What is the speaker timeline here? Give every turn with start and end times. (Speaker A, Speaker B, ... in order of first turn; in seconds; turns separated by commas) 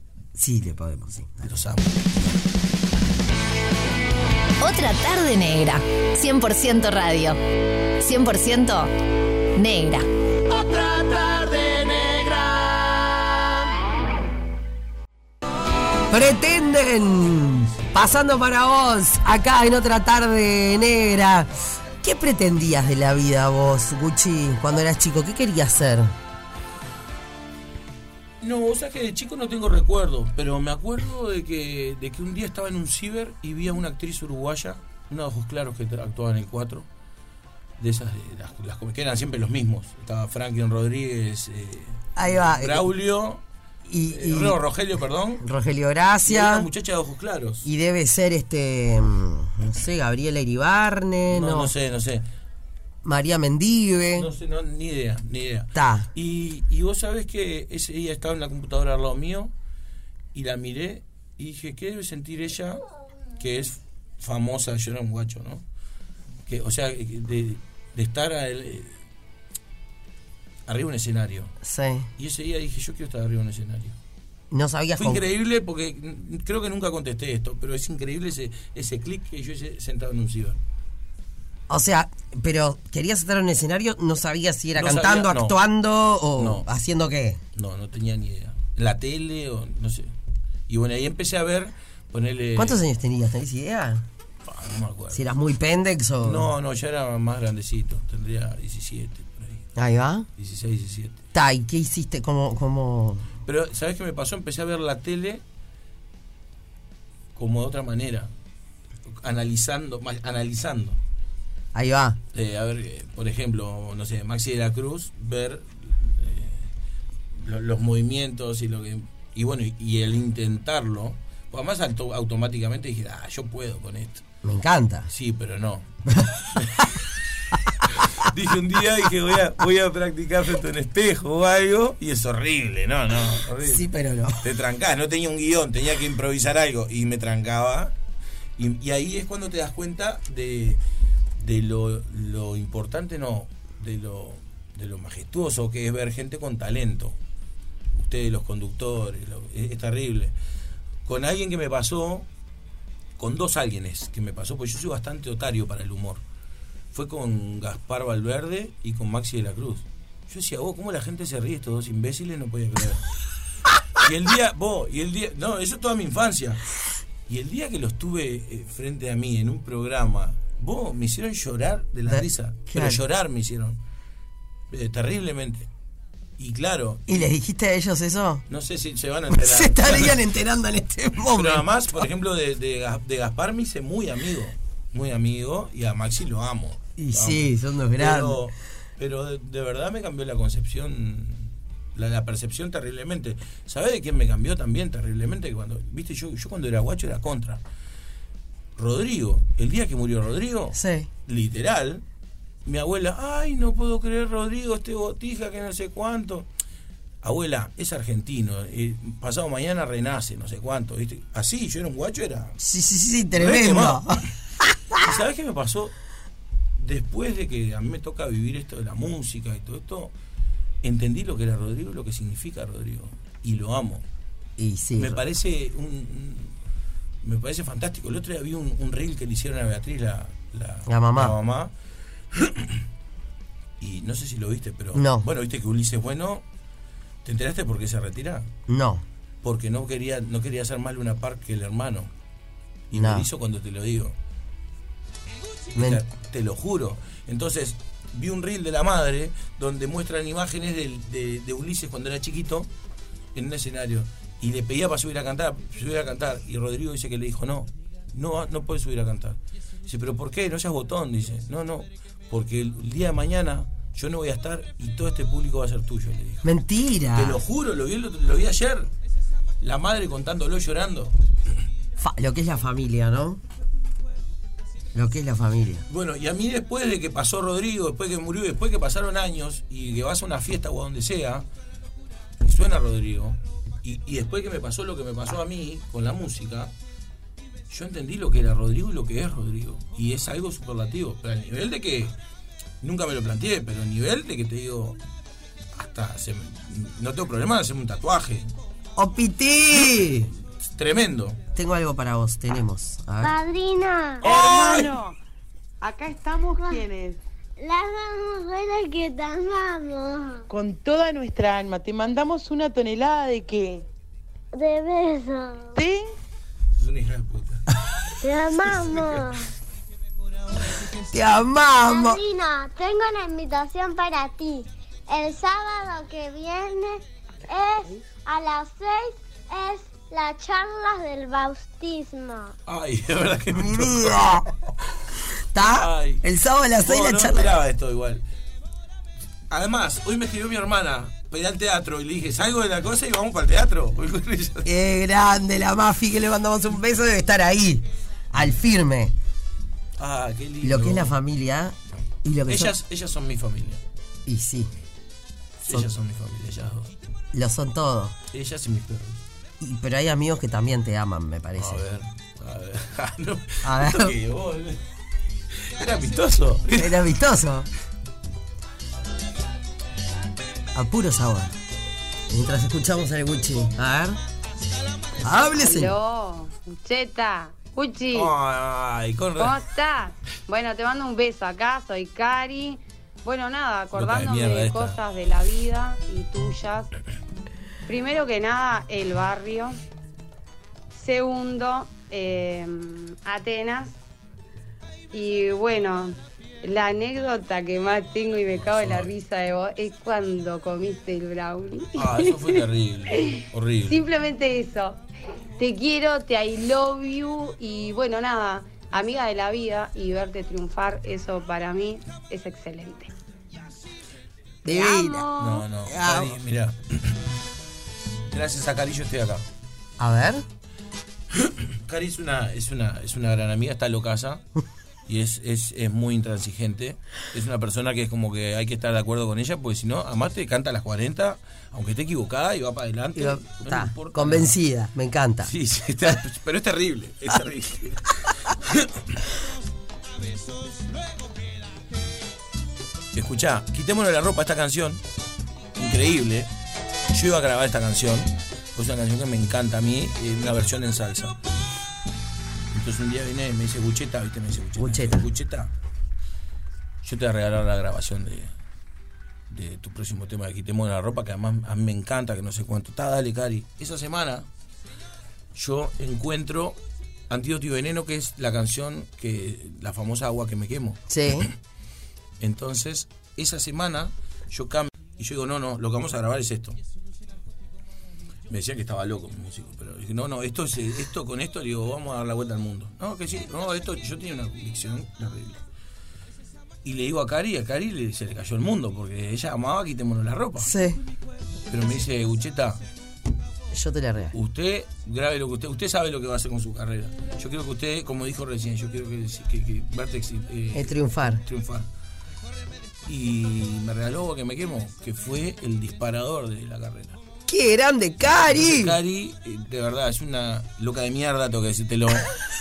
Speaker A: 0.3-1.5, Speaker B: 1.4-2.1, Speaker C: 4.6-7.4, Speaker C: 8.0-8.9, Speaker C: 9.6-10.1, Speaker C: 12.2-12.5, Speaker A: 16.1-26.1, Speaker B: 28.4-36.9, Speaker B: 37.8-43.4, Speaker A: 42.1-42.9, Speaker A: 43.9-44.6, Speaker B: 44.1-45.4, Speaker A: 45.4-46.7, Speaker B: 46.2-47.7, Speaker A: 47.6-51.7, Speaker B: 51.3-52.2, Speaker A: 53.0-54.3, Speaker B: 54.1-59.5, Speaker A: 55.7-56.1, Speaker B: 60.3-62.8, Speaker B: 63.4-65.6, Speaker B: 66.5-69.0, Speaker B: 70.7-71.5, Speaker A: 71.6-72.1, Speaker B: 72.2-74.0, Speaker A: 74.5-75.2, Speaker B: 75.0-80.6, Speaker A: 81.7-87.4, Speaker B: 84.7-85.6, Speaker B: 86.4-86.7, Speaker B: 87.5-90.1, Speaker B: 90.7-92.8, Speaker A: 92.5-94.0, Speaker B: 94.4-95.2, Speaker A: 95.1-96.5, Speaker B: 96.2-99.7, Speaker A: 99.8-100.3, Speaker B: 100.4-101.2, Speaker A: 101.3-103.3, Speaker B: 103.4-105.4, Speaker B: 107.3-108.3, Speaker B: 109.1-111.0, Speaker A: 111.7-112.2, Speaker B: 112.3-116.7, Speaker B: 117.3-124.2, Speaker A: 124.4-125.1, Speaker B: 125.1-125.9, Speaker A: 126.1-126.8, Speaker B: 126.5-126.9, Speaker B: 127.9-133.9, Speaker A: 133.6-134.4, Speaker B: 134.4-137.9, Speaker B: 138.6-140.8, Speaker B: 141.4-147.2, Speaker B: 147.9-150.3, Speaker B: 151.0-152.3, Speaker B: 153.2-156.2, Speaker B: 156.9-163.1, Speaker B: 164.0-166.6, Speaker B: 167.3-173.8, Speaker A: 172.1-173.0, Speaker B: 174.7-175.7, Speaker B: 176.4-177.2, Speaker A: 177.1-178.4, Speaker B: 178.5-180.2, Speaker A: 179.3-182.0, Speaker B: 181.3-197.6, Speaker A: 187.0-188.4, Speaker B: 198.8-202.0, Speaker A: 200.7-201.1, Speaker B: 202.6-206.5, Speaker B: 207.2-212.6, Speaker A: 212.6-215.0, Speaker B: 213.3-214.2, Speaker B: 215.0-215.9, Speaker B: 216.8-220.1, Speaker B: 220.8-224.0, Speaker A: 224.6-225.2, Speaker B: 224.9-226.6, Speaker B: 227.2-231.7, Speaker A: 230.9-231.3, Speaker B: 232.3-232.8, Speaker B: 233.8-236.4, Speaker A: 234.9-235.3, Speaker B: 237.2-238.5, Speaker A: 238.7-239.0, Speaker B: 239.4-242.1, Speaker B: 242.9-244.2, Speaker A: 242.9-243.3, Speaker B: 245.7-252.7, Speaker A: 245.8-246.0, Speaker B: 253.3-266.5, Speaker A: 266.4-267.4, Speaker B: 267.1-268.9, Speaker B: 269.6-271.2, Speaker A: 272.0-273.4, Speaker A: 274.9-275.8, Speaker B: 275.9-281.4, Speaker B: 282.4-286.7, Speaker B: 287.7-292.1, Speaker B: 292.8-295.0, Speaker B: 295.7-298.5, Speaker A: 299.0-300.3, Speaker B: 299.7-301.4, Speaker A: 301.5-303.3, Speaker D: 303.2-304.3, Speaker B: 304.2-304.9, Speaker E: 304.2-305.1, Speaker E: 305.8-307.2, Speaker D: 306.6-306.8, Speaker D: 307.6-310.5, Speaker E: 310.5-313.9, Speaker D: 314.5-315.8, Speaker E: 315.8-316.1, Speaker B: 316.7-317.6, Speaker D: 318.2-319.5, Speaker A: 321.1-322.2, Speaker D: 321.8-332.5, Speaker B: 332.6-334.4, Speaker A: 333.5-334.5, Speaker A: 335.5-337.5, Speaker B: 335.6-336.2, Speaker B: 336.8-338.2, Speaker B: 339.5-344.7, Speaker A: 344.6-349.1, Speaker B: 350.0-351.1, Speaker A: 350.6-352.7, Speaker B: 352.5-353.8, Speaker A: 354.2-354.7, Speaker B: 355.6-356.9, Speaker A: 357.3-358.1, Speaker B: 358.3-359.2, Speaker A: 359.6-361.8, Speaker B: 361.6-364.8, Speaker A: 363.6-364.1, Speaker B: 365.5-367.0, Speaker A: 366.8-367.7, Speaker A: 370.7-371.5, Speaker A: 372.3-374.2, Speaker A: 375.2-375.9, Speaker F: 375.5-378.3, Speaker B: 378.1-379.6, Speaker F: 379.4-386.9, Speaker B: 383.9-385.0, Speaker F: 387.9-389.8, Speaker F: 390.9-393.9, Speaker F: 395.1-402.6, Speaker B: 398.6-399.1, Speaker B: 401.9-404.0, Speaker F: 403.3-405.0, Speaker F: 405.6-413.1, Speaker A: 414.6-416.3, Speaker B: 415.3-417.2, Speaker B: 418.3-419.4, Speaker A: 420.0-420.4, Speaker B: 421.3-424.4, Speaker B: 425.1-434.5, Speaker A: 433.1-435.5, Speaker B: 435.4-439.2, Speaker B: 443.1-445.0, Speaker B: 445.8-446.5, Speaker B: 447.1-451.4, Speaker B: 452.7-455.7, Speaker A: 454.8-455.2, Speaker B: 457.0-458.5, Speaker B: 459.5-464.5, Speaker B: 465.5-471.5, Speaker A: 471.1-471.5, Speaker B: 472.4-476.8, Speaker B: 478.5-485.6, Speaker B: 486.8-490.7, Speaker A: 490.6-491.0, Speaker B: 491.7-492.8, Speaker A: 493.7-494.3, Speaker B: 494.3-501.9, Speaker A: 500.7-501.4, Speaker B: 503.1-507.2, Speaker A: 507.5-508.9, Speaker B: 508.5-512.3